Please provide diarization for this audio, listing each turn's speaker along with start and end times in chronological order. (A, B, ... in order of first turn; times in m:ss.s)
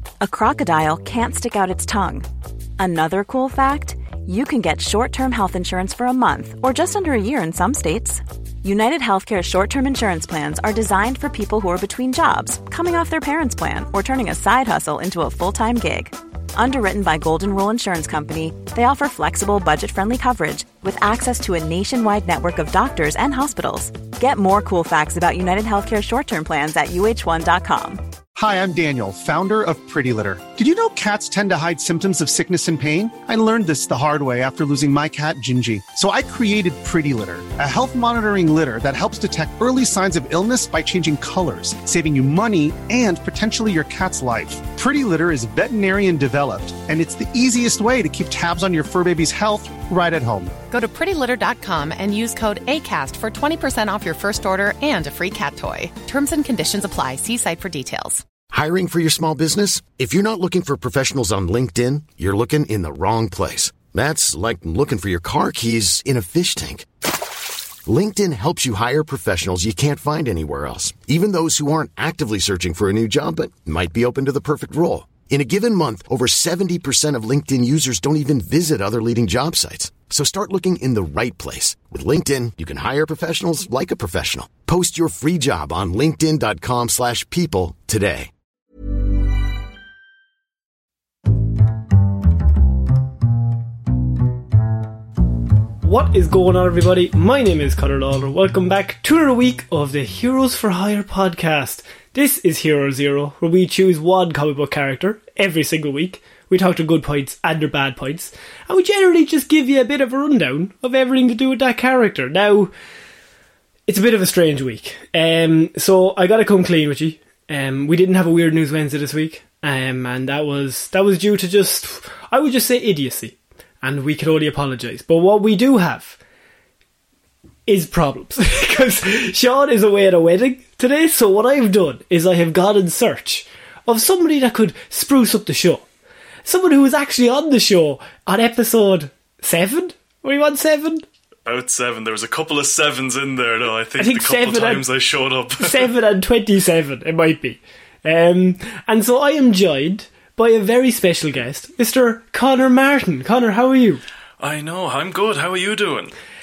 0:00.2-0:02.3 A
0:02.8-0:28.0 A
0:28.4-0:50.5 B
0:50.7-0:58.2 C
0:58.5-1:06.9 D
1:07.8-1:28.3 D
1:35.8-1:52.7 E
1:53.9-2:06.2 E
2:07.7-2:15.8 E
2:16.4-2:21.0 E
2:21.4-2:25.9 F
2:24.0-2:24.9 E
2:25.6-2:34.0 E
2:34.4-2:36.1 F